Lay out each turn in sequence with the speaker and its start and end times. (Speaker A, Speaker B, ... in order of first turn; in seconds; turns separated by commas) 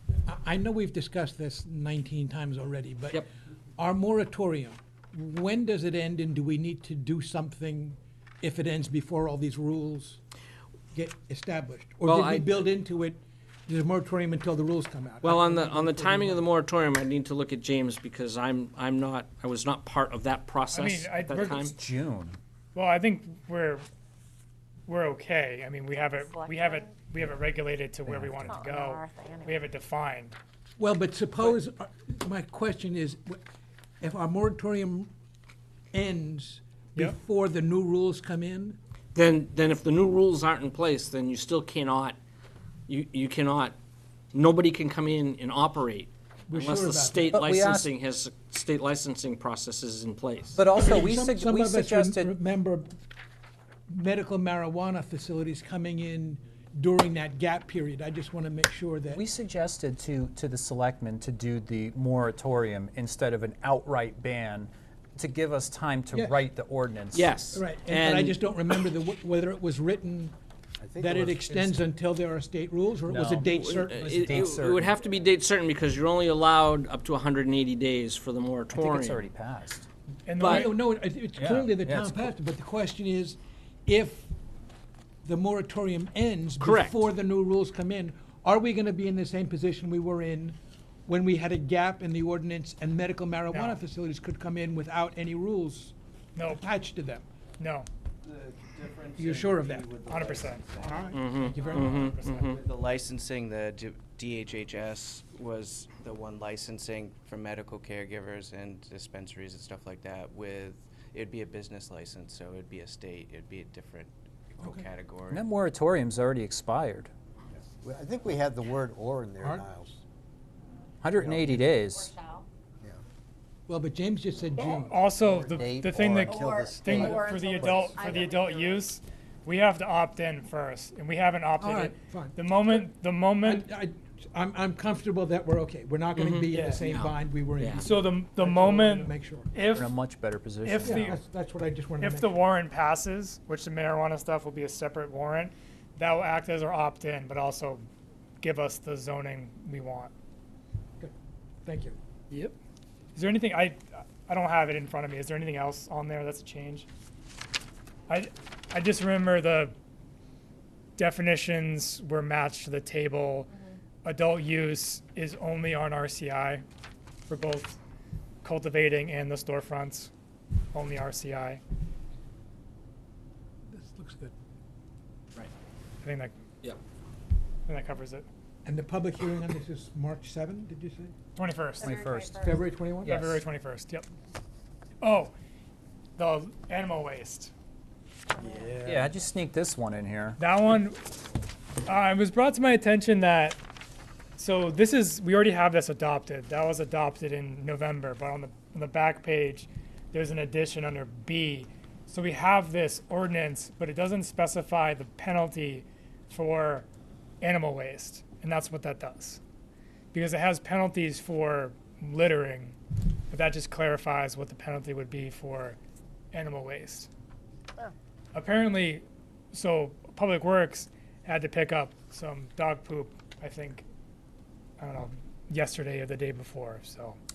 Speaker A: 0.3-3.2, Speaker A: 3.8-10.2, Speaker A: 10.9-16.5, Speaker B: 12.0-12.5, Speaker B: 15.2-21.8, Speaker C: 20.7-21.7, Speaker D: 21.4-22.4, Speaker C: 22.7-23.9, Speaker C: 24.9-30.4, Speaker E: 26.2-26.9, Speaker D: 28.1-28.5, Speaker E: 28.5-29.7, Speaker A: 30.8-33.4, Speaker A: 34.0-35.1, Speaker A: 35.9-38.8, Speaker B: 39.1-42.2, Speaker B: 42.9-43.8, Speaker B: 44.3-50.6, Speaker A: 46.5-47.4, Speaker D: 47.3-47.9, Speaker D: 50.6-52.3, Speaker A: 50.7-53.0, Speaker A: 53.9-59.2, Speaker D: 59.1-67.3, Speaker A: 66.1-66.4, Speaker B: 67.1-68.4, Speaker A: 67.5-70.4, Speaker F: 70.8-71.9, Speaker A: 71.0-74.5, Speaker D: 73.1-73.5, Speaker B: 73.5-79.2, Speaker D: 74.0-75.0, Speaker D: 78.7-79.9, Speaker C: 80.3-80.8, Speaker B: 80.4-80.7, Speaker A: 80.5-84.3, Speaker D: 81.4-82.3, Speaker A: 85.2-90.6, Speaker B: 86.6-86.9, Speaker A: 91.1-97.3, Speaker C: 93.5-93.8, Speaker C: 96.4-96.6, Speaker C: 97.6-97.9, Speaker G: 98.2-101.3, Speaker A: 99.2-100.0, Speaker C: 100.0-100.6, Speaker A: 100.7-102.0, Speaker B: 101.1-102.6, Speaker C: 101.3-102.7, Speaker G: 101.8-115.4, Speaker A: 114.6-114.9, Speaker D: 115.3-117.1, Speaker F: 117.8-120.0, Speaker A: 119.4-119.7, Speaker D: 121.0-122.1, Speaker F: 121.2-121.7, Speaker E: 121.8-122.5, Speaker A: 123.7-125.0, Speaker C: 124.6-133.7, Speaker F: 125.2-128.3, Speaker E: 126.1-128.9, Speaker A: 131.6-132.8, Speaker A: 133.4-139.5, Speaker B: 136.2-137.8, Speaker C: 136.5-136.8, Speaker C: 137.8-139.9, Speaker D: 139.7-141.2, Speaker C: 140.6-141.2, Speaker A: 140.8-142.4, Speaker C: 142.0-147.8, Speaker C: 148.4-150.1, Speaker A: 151.6-152.0, Speaker C: 153.2-156.9, Speaker C: 158.1-159.8, Speaker C: 161.0-163.5, Speaker C: 164.0-166.6, Speaker C: 167.3-167.8, Speaker C: 168.4-170.1, Speaker C: 170.7-171.6, Speaker A: 173.7-174.3, Speaker C: 176.0-176.3, Speaker C: 177.7-178.3, Speaker A: 178.7-181.1, Speaker C: 181.4-181.9, Speaker E: 181.8-182.7, Speaker D: 181.8-182.5, Speaker A: 182.4-183.4, Speaker C: 183.0-184.1, Speaker C: 185.0-185.3, Speaker C: 186.2-187.5, Speaker E: 188.3-188.8, Speaker D: 188.8-190.4, Speaker C: 190.4-191.0, Speaker C: 191.8-193.6, Speaker C: 194.4-206.9, Speaker C: 207.4-209.4, Speaker C: 210.1-212.8, Speaker C: 213.3-215.8, Speaker C: 216.3-217.1, Speaker C: 218.3-223.9, Speaker C: 224.8-227.2